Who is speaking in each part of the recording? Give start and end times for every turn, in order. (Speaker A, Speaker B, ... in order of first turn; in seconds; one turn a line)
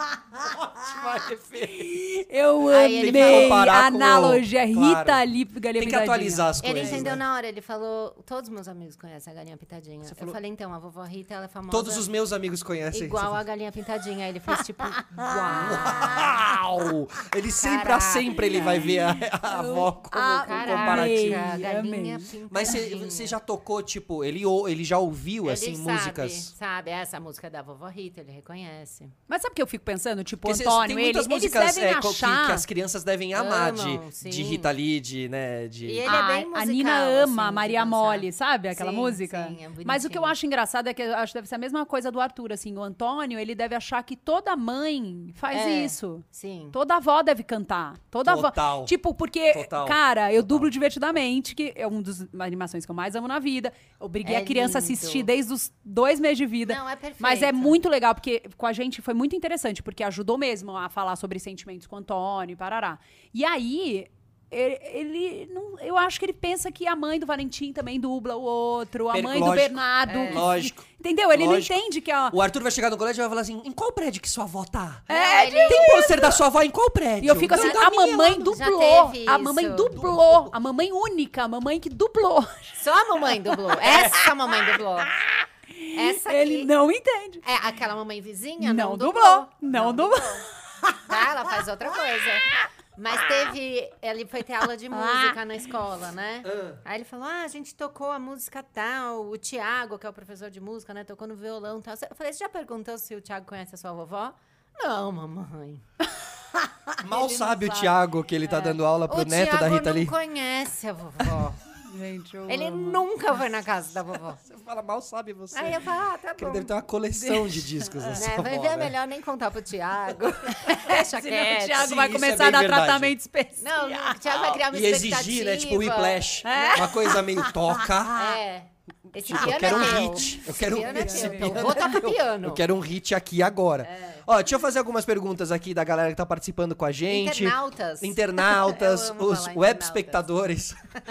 Speaker A: 0.3-2.0
Speaker B: 1.8-7.1
Speaker C: 2.7-3.7
Speaker A: 3.0-5.2
Speaker A: 5.8-7.2
Speaker C: 6.6-12.1
Speaker A: 10.1-10.4
Speaker A: 11.7-13.4
Speaker C: 12.9-16.4
Speaker B: 15.1-16.1
Speaker A: 15.5-21.6
Speaker C: 17.5-18.7
Speaker B: 18.5-22.7
Speaker C: 20.4-23.4
Speaker A: 22.5-26.5
Speaker C: 25.4-29.1
Speaker B: 29.3-32.6
Speaker A: 30.4-36.2
Speaker C: 33.3-34.7
Speaker C: 35.8-40.3
Speaker B: 36.0-72.3
Speaker C: 45.5-46.7
Speaker A: 48.2-48.9
Speaker A: 49.5-50.8
Speaker C: 54.2-55.3
Speaker C: 56.6-57.8
Speaker A: 69.1-71.8
Speaker C: 70.1-70.5
Speaker A: 72.3-75.1
Speaker B: 75.1-76.3
Speaker C: 75.1-76.4
Speaker A: 75.6-77.8
Speaker B: 77.2-82.8
Speaker C: 77.5-79.9
Speaker A: 79.9-80.5
Speaker C: 82.8-85.2
Speaker B: 83.4-84.3
Speaker B: 85.1-87.4
Speaker C: 85.9-86.7
Speaker C: 87.4-90.4
Speaker B: 88.6-91.1
Speaker C: 91.1-105.8
Speaker B: 94.9-95.4
Speaker A: 96.4-96.8
Speaker A: 107.0-110.1
Speaker B: 107.1-107.9
Speaker B: 108.5-108.8
Speaker C: 109.1-111.6
Speaker B: 111.8-113.0
Speaker C: 112.5-114.4
Speaker A: 114.4-118.9
Speaker C: 115.5-116.7
Speaker B: 117.1-118.2
Speaker C: 118.1-121.9
Speaker B: 120.5-124.6
Speaker A: 121.8-123.1
Speaker C: 123.6-127.1
Speaker A: 124.6-128.3
Speaker B: 126.4-128.2
Speaker C: 128.1-132.6
Speaker A: 129.2-140.8
Speaker B: 129.3-132.0
Speaker C: 133.8-134.2
Speaker C: 137.1-140.2